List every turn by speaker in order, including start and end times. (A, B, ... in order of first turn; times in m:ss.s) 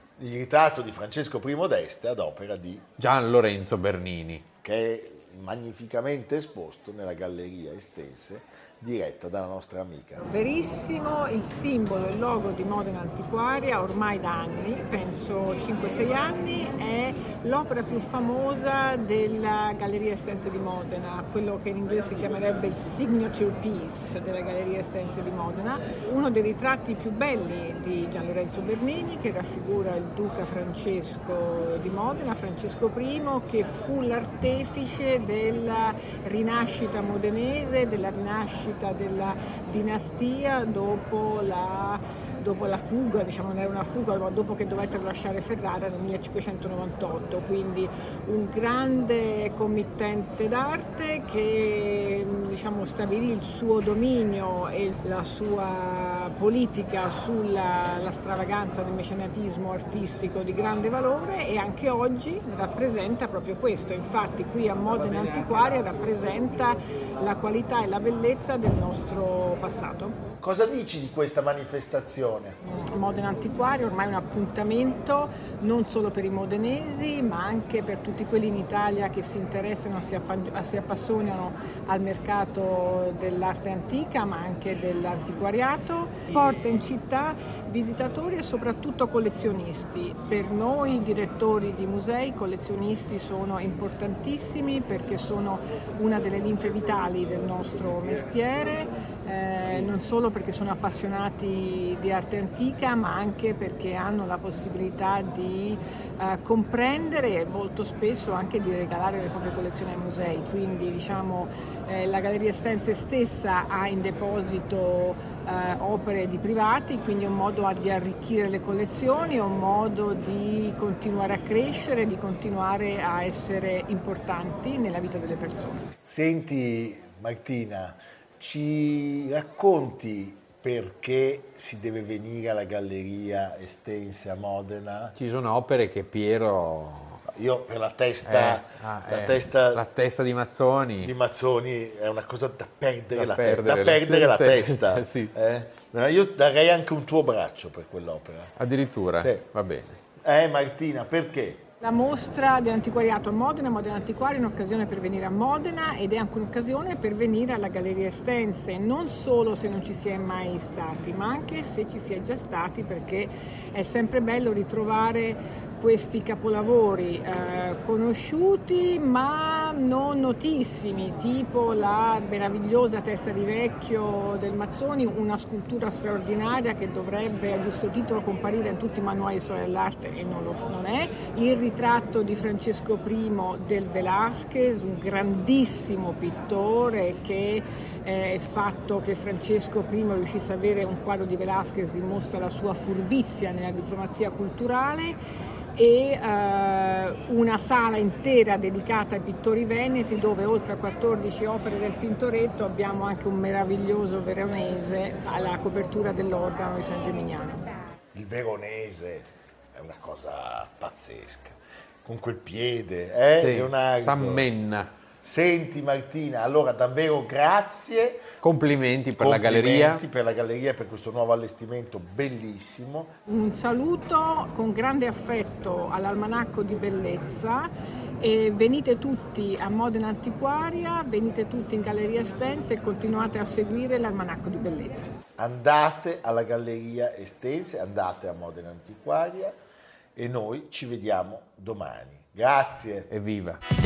0:00.2-0:02.9 A
0:03.0-0:04.5 B
0:04.6-0:10.2 A
0:10.2-1:10.2 C
1:10.4-1:12.6 A
1:12.6-2:05.9 C
2:06.0-2:15.2 A
2:15.2-2:17.2 B
2:17.3-2:19.8 A
2:18.2-2:21.1 B
2:21.0-2:28.6 A
2:23.1-2:25.3 B
2:28.6-2:30.0 B
2:29.2-2:29.5 A
2:30.2-2:31.7 A
2:31.8-3:15.2 C
3:15.8-3:27.8 C
3:28.1-3:34.5 A
3:33.4-3:34.9 B
3:35.2-3:38.2 A
3:38.4-3:40.0 B
3:39.2-3:43.1 A
3:43.3-3:55.1 C
3:55.4-3:59.6 A
4:00.2-4:03.1 A
4:03.1-4:03.6 B